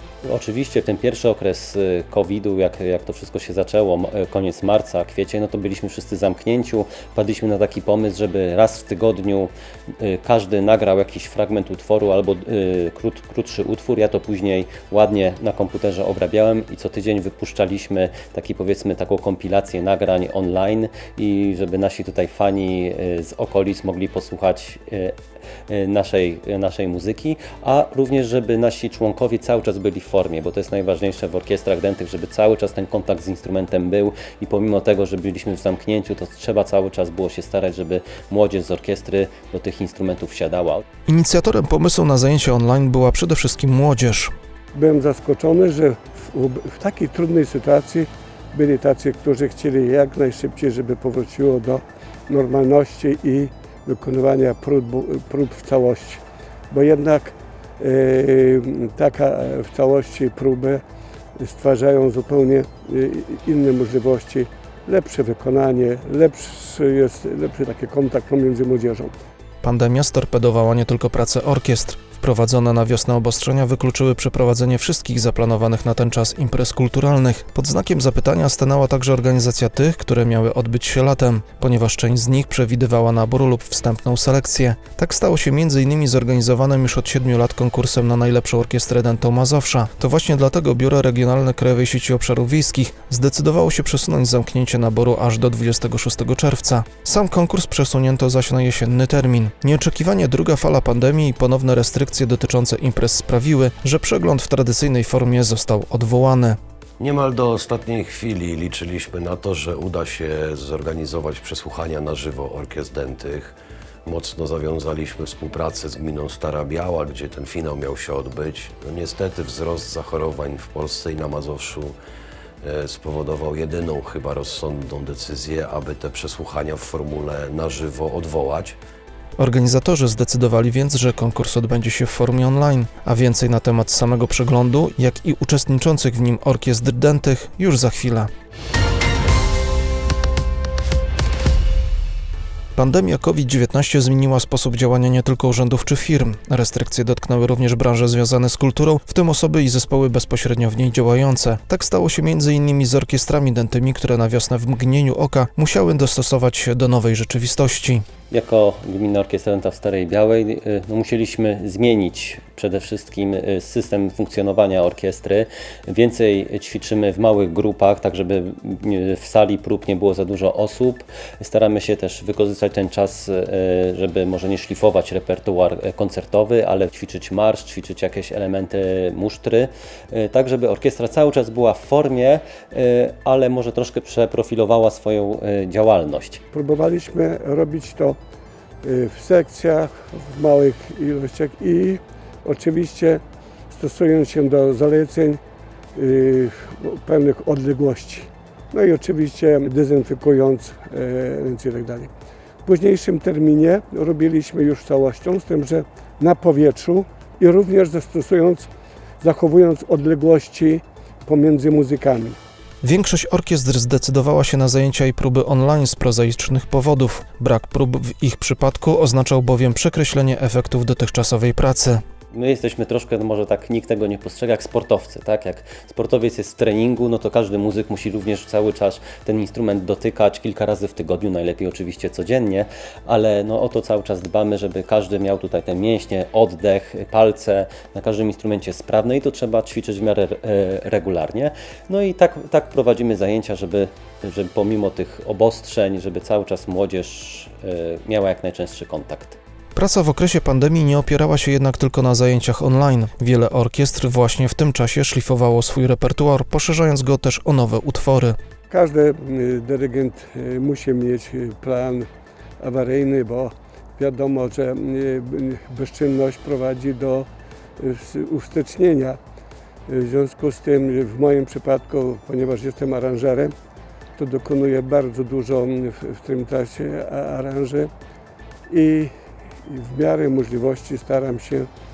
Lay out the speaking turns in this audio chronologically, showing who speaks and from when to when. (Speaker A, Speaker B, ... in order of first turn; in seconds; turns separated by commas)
Speaker A: 0.2-25.1, Speaker A: 25.7-40.8, Speaker B: 41.1-44.3, Speaker C: 44.7-60.8, Speaker C: 61.4-69.1, Speaker B: 69.6-106.6, Speaker D: 107.0-122.0, Speaker D: 122.6-128.8, Speaker B: 129.4-138.3, Speaker B: 142.7-158.0, Speaker A: 158.3-186.4, Speaker C: 186.5-188.2, Speaker C: 188.8-195.4, Speaker C: 195.9-202.1, Speaker C: 202.7-208.7, Speaker C: 209.2-212.4, Speaker B: 212.8-222.0, Speaker A: 222.3-249.4, Speaker B: 249.7-258.4, Speaker C: 258.7-262.1, Speaker C: 262.6-267.3, Speaker C: 267.8-269.2, Speaker C: 269.9-273.5, Speaker C: 274.2-277.9, Speaker C: 278.7-279.1, Speaker C: 279.7-281.7